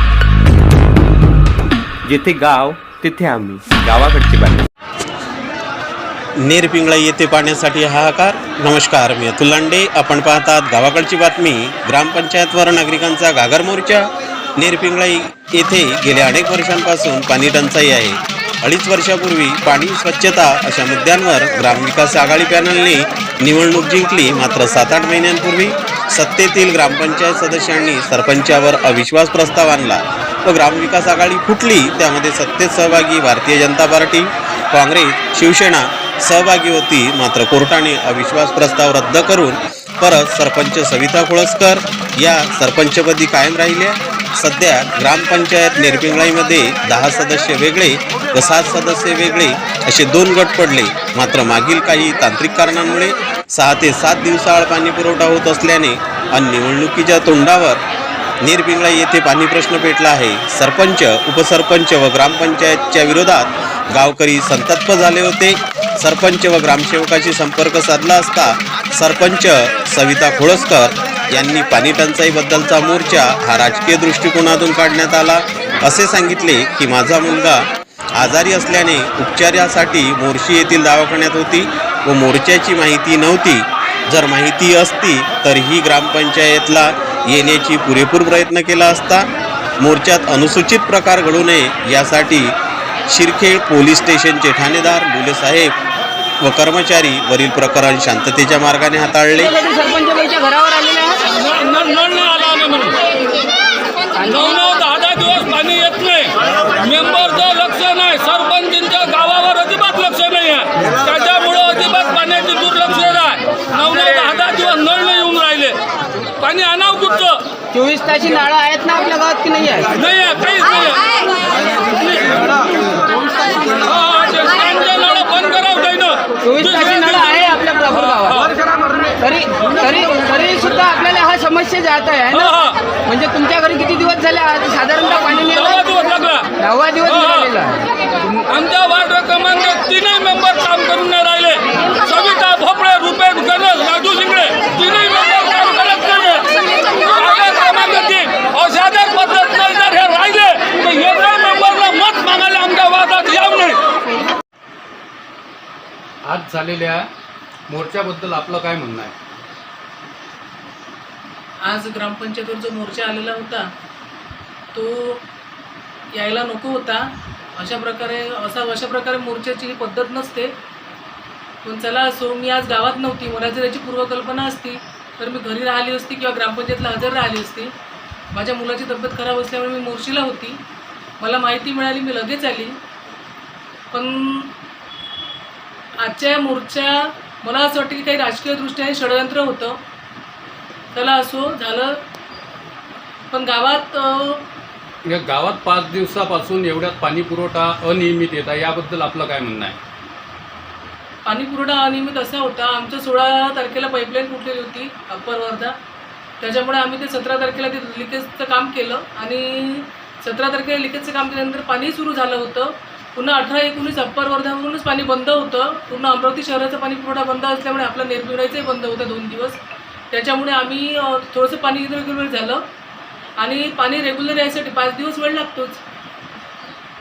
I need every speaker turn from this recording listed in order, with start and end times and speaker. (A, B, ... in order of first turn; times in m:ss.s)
0:02.0-0:04.7 A
0:06.4-0:14.1 B
0:14.6-0:57.8 B
0:58.4-1:17.6 B
1:18.2-1:29.3 B
1:29.8-1:32.5 B
1:33.1-1:35.7 B
1:36.4-1:39.5 B
1:39.4-1:41.2 C
1:41.4-1:43.0 D
1:44.2-1:55.8 D
1:56.4-1:57.4 D
1:57.7-1:59.9 C
2:00.0-2:02.5 D
2:03.4-2:07.4 D
2:06.4-2:12.5 C
2:08.2-2:08.5 D
2:12.3-2:12.8 D
2:13.0-2:15.8 C
2:15.3-2:16.5 D
2:16.6-2:17.8 C
2:17.1-2:17.4 D
2:18.3-2:33.8 D
2:36.2-2:37.1 E
2:37.7-2:39.2 E
2:41.6-2:43.7 F
2:44.7-2:45.2 F
2:46.2-2:50.5 F
2:51.6-2:57.7 F
2:58.3-3:00.6 F
3:01.2-3:02.8 F
3:03.9-3:04.5 F
3:06.0-3:09.8 F
3:10.9-3:12.0 F
3:13.3-3:14.5 F
3:15.1-3:19.8 E
3:21.2-3:25.7 F
3:26.4-3:39.6 F
3:40.1-3:42.6 F
3:43.4-3:45.8 F